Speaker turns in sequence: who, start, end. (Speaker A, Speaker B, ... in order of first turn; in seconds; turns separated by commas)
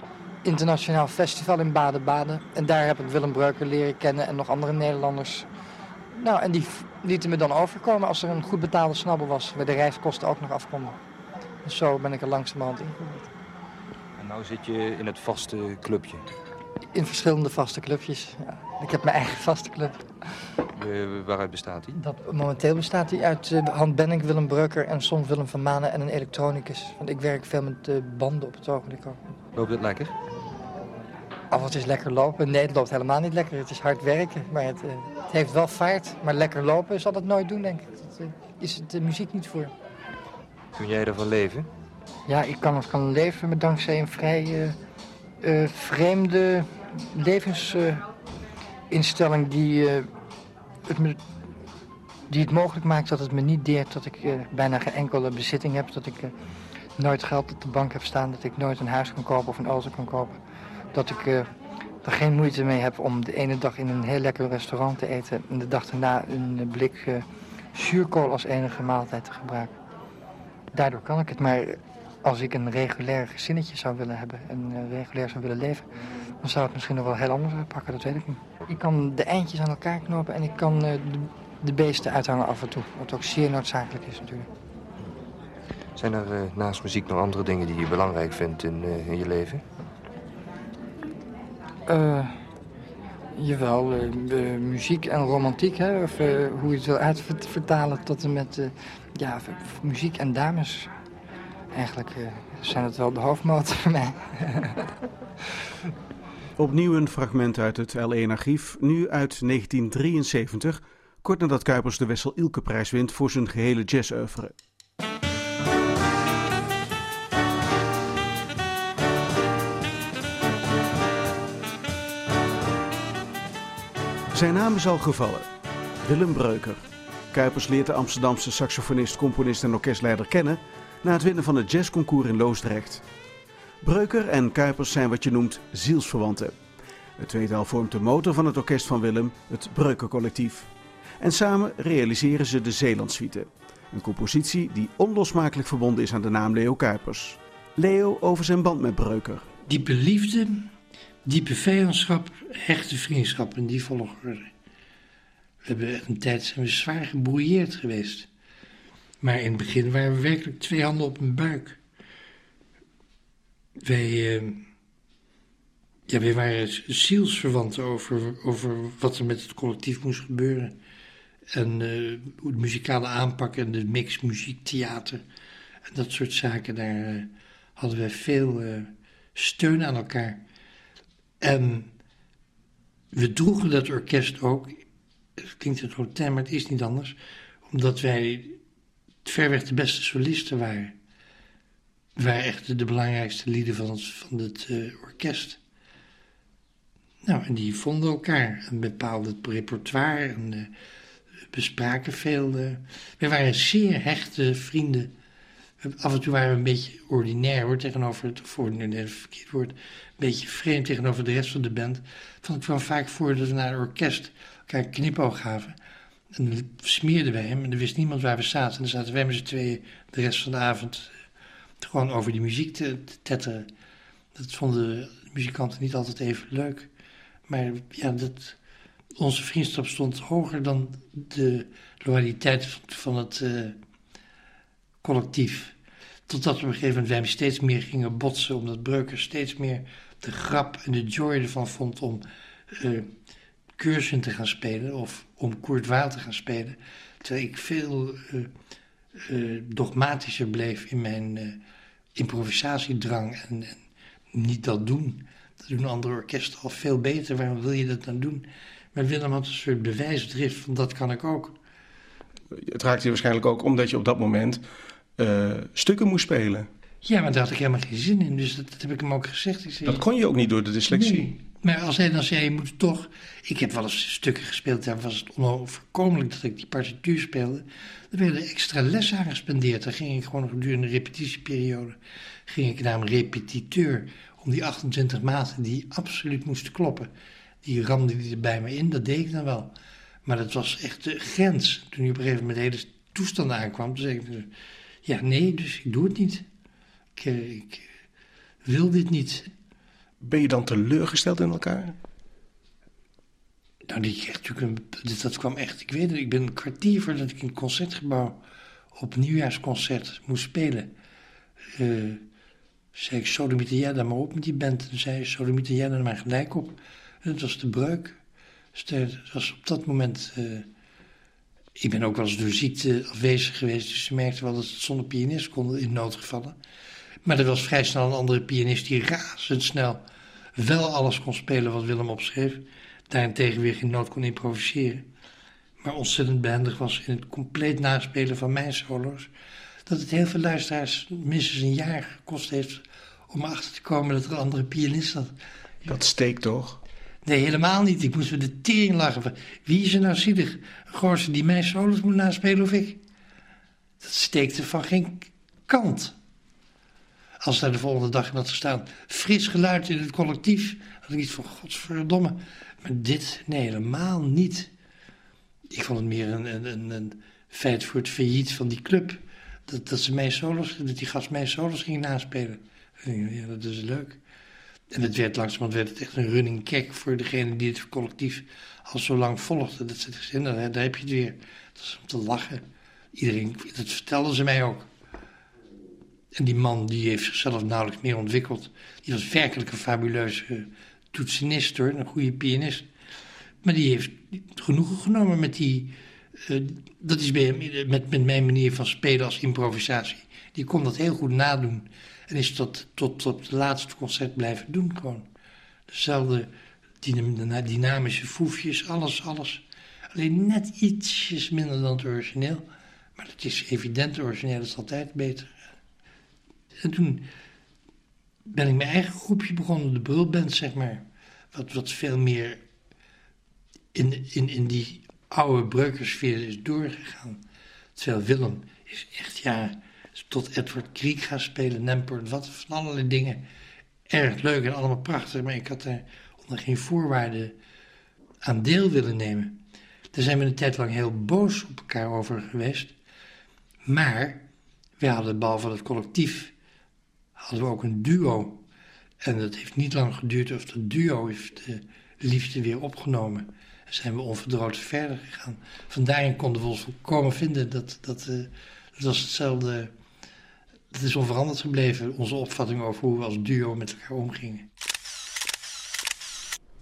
Speaker A: 0.4-5.5, Speaker A: 6.2-11.0, Speaker A: 11.6-13.3, Speaker B: 14.2-16.2, Speaker A: 16.9-20.1, Speaker B: 20.8-22.0, Speaker A: 22.0-29.3, Speaker B: 29.5-30.1, Speaker A: 31.5-39.7, Speaker B: 40.7-41.7, Speaker A: 42.3-44.8, Speaker A: 45.4-48.0, Speaker A: 48.9-50.1, Speaker A: 50.9-51.2, Speaker A: 52.3-56.3, Speaker A: 57.0-60.4, Speaker A: 60.9-61.5, Speaker A: 62.0-69.7, Speaker A: 70.7-75.8, Speaker A: 76.4-84.5, Speaker B: 86.0-89.6, Speaker A: 91.9-92.3, Speaker A: 93.3-100.9, Speaker A: 101.7-104.8, Speaker C: 106.6-114.5, Speaker C: 124.3-125.5, Speaker C: 126.0-133.0, Speaker C: 133.8-136.6, Speaker C: 137.2-149.5, Speaker D: 149.7-150.7, Speaker D: 151.2-154.5, Speaker D: 155.6-158.3, Speaker D: 159.2-161.8, Speaker D: 163.8-164.7, Speaker D: 166.1-170.8, Speaker D: 171.5-175.2, Speaker D: 175.9-180.4, Speaker D: 181.4-181.9, Speaker D: 183.1-184.8, Speaker D: 185.4-187.2, Speaker D: 187.7-188.6, Speaker D: 189.2-190.9, Speaker D: 192.2-195.6, Speaker D: 197.2-200.7, Speaker D: 201.5-205.1, Speaker D: 205.8-215.7, Speaker D: 216.3-221.1, Speaker D: 221.8-223.7, Speaker D: 224.3-226.9, Speaker D: 227.5-228.6, Speaker D: 229.2-233.8, Speaker D: 235.0-235.7, Speaker D: 236.3-243.1, Speaker D: 243.8-248.5, Speaker D: 249.2-251.6, Speaker D: 252.2-261.6, Speaker E: 262.5-264.6, Speaker E: 265.2-266.7, Speaker D: 267.0-270.0, Speaker E: 269.8-271.4, Speaker D: 270.9-281.9, Speaker D: 282.5-287.1, Speaker D: 287.6-289.7, Speaker D: 290.2-294.5, Speaker D: 295.0-296.4, Speaker D: 297.1-297.9, Speaker D: 298.6-299.5, Speaker E: 300.2-301.9, Speaker D: 303.9-308.4, Speaker D: 308.9-310.9, Speaker D: 311.7-312.2, Speaker D: 312.9-318.2, Speaker D: 318.7-320.7, Speaker D: 321.8-326.6, Speaker D: 327.2-330.0, Speaker D: 330.6-335.0, Speaker D: 335.8-339.3, Speaker D: 339.9-345.3, Speaker E: 345.8-346.8, Speaker D: 347.2-353.0, Speaker D: 354.0-356.1, Speaker D: 357.4-364.7, Speaker D: 365.7-374.2, Speaker D: 374.9-384.9, Speaker D: 386.4-392.9, Speaker D: 393.6-405.3, Speaker D: 405.9-406.5, Speaker D: 407.0-409.6, Speaker D: 410.1-412.6, Speaker D: 413.2-415.5, Speaker D: 416.8-417.3, Speaker D: 418.5-422.6, Speaker D: 423.9-427.4, Speaker D: 427.9-433.4, Speaker D: 434.1-437.5, Speaker D: 438.4-439.6, Speaker D: 440.1-442.9, Speaker D: 443.8-444.4, Speaker D: 445.0-446.5, Speaker D: 447.4-448.6, Speaker D: 449.2-459.9, Speaker D: 460.9-464.7